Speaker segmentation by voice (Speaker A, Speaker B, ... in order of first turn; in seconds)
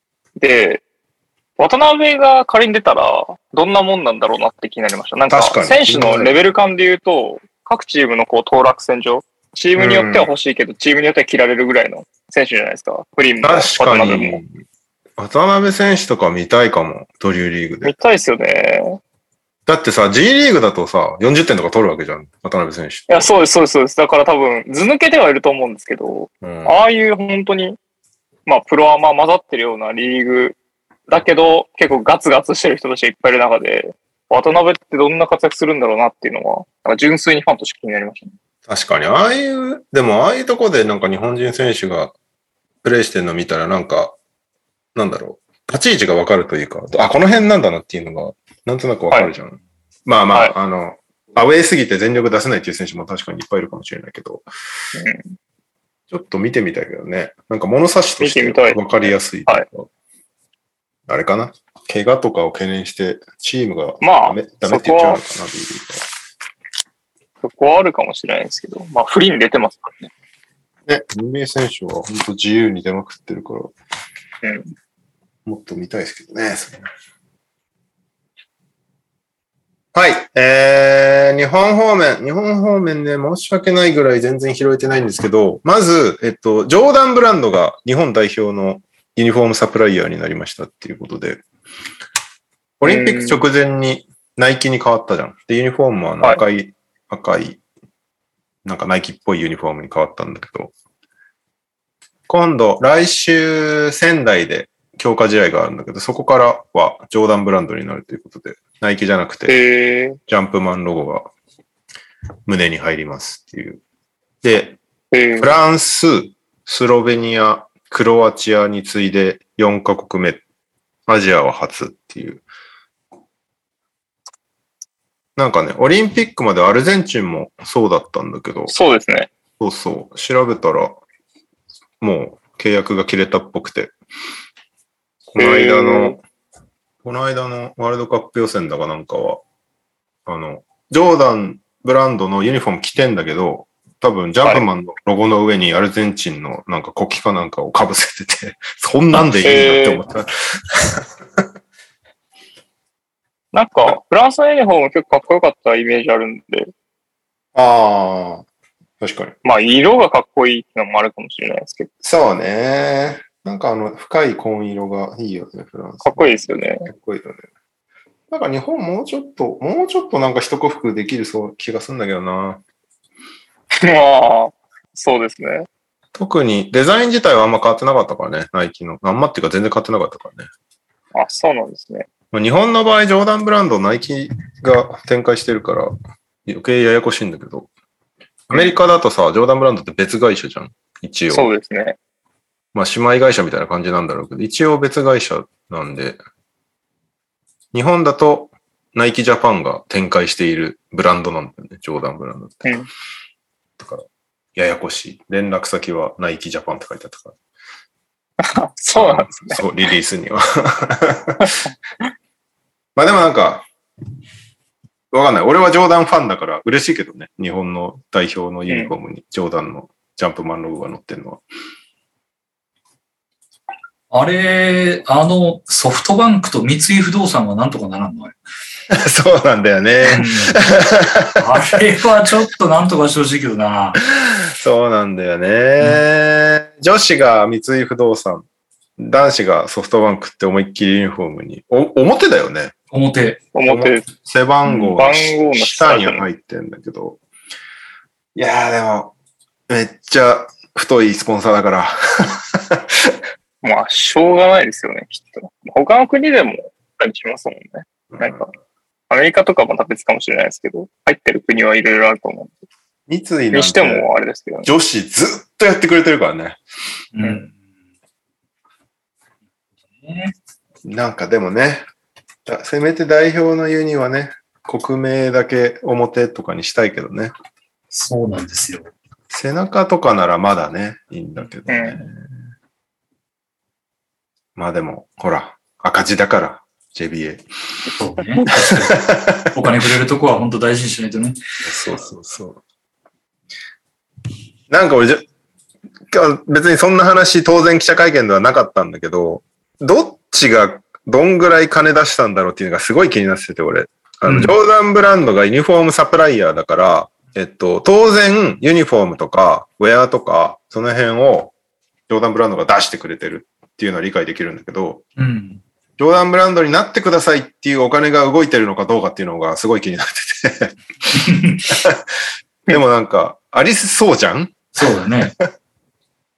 Speaker A: 0.4-0.8, 1.6-14.4, 17.8-19.0, 23.1-27.8, 28.5-30.6, 31.1-38.3, 55.0-55.4, 58.2-59.6, 64.0-65.2, 67.4-70.1, 74.4-74.7, 92.8-93.4, 109.5-110.2, 115.1-115.5, 128.7-129.3, 135.4-136.2, 149.3-150.0, 153.5-156.7, 159.4-161.9, 166.0-166.9, 173.8-175.7, 181.1-182.1, 191.3-192.0, 208.4-209.6, 243.5-244.1, 244.7-246.3, 253.6-258.5, 259.1-262.5, 263.5-264.7, 267.2-267.4, 281.7-282.0
Speaker B: 5.3-6.4, 9.8-10.3, 13.4-14.5, 15.2-17.9, 19.7-23.3, 26.4-26.8, 38.7-42.1, 42.8-44.2, 45.0-54.5, 56.1-59.9, 61.1-66.1, 70.9-73.7, 75.5-76.9, 79.9-91.4, 92.8-97.6, 98.7-100.7, 102.3-109.6, 110.3-111.3, 112.5-113.8, 114.4-114.8, 115.4-120.4, 121.1-122.5, 125.4-128.7, 129.6-131.0, 132.0-133.9, 135.3-136.2, 137.0-139.4, 140.3-151.4, 157.6-158.5, 159.0-159.4, 162.0-166.3, 166.8-167.5, 168.3-172.6, 176.2-180.5, 182.3-185.9, 186.5-187.7, 188.5-191.5, 192.7-196.2, 197.7-202.8, 203.8-207.4, 208.9-211.6, 213.0-213.7, 215.1-221.4, 228.9-231.8, 234.0-238.5, 239.0-242.8, 243.7-247.2, 248.3-249.1, 249.7-253.2, 258.1-258.4, 263.1-264.1, 264.6-266.6, 270.8-271.9, 272.4-277.3, 279.3-282.3, 284.6-287.4, 288.5-289.5, 291.6-292.6, 294.7-295.3, 296.1-311.5, 312.1-315.0, 316.0-320.8, 321.7-322.0, 322.7-325.3
Speaker C: 224.1-228.4, 230.1-230.6, 231.4-234.0, 242.9-243.4, 267.1-267.5, 270.0-270.3, 277.9-278.9, 287.9-291.4, 304.2-304.6, 315.2-315.6, 321.1-321.6, 324.8-325.4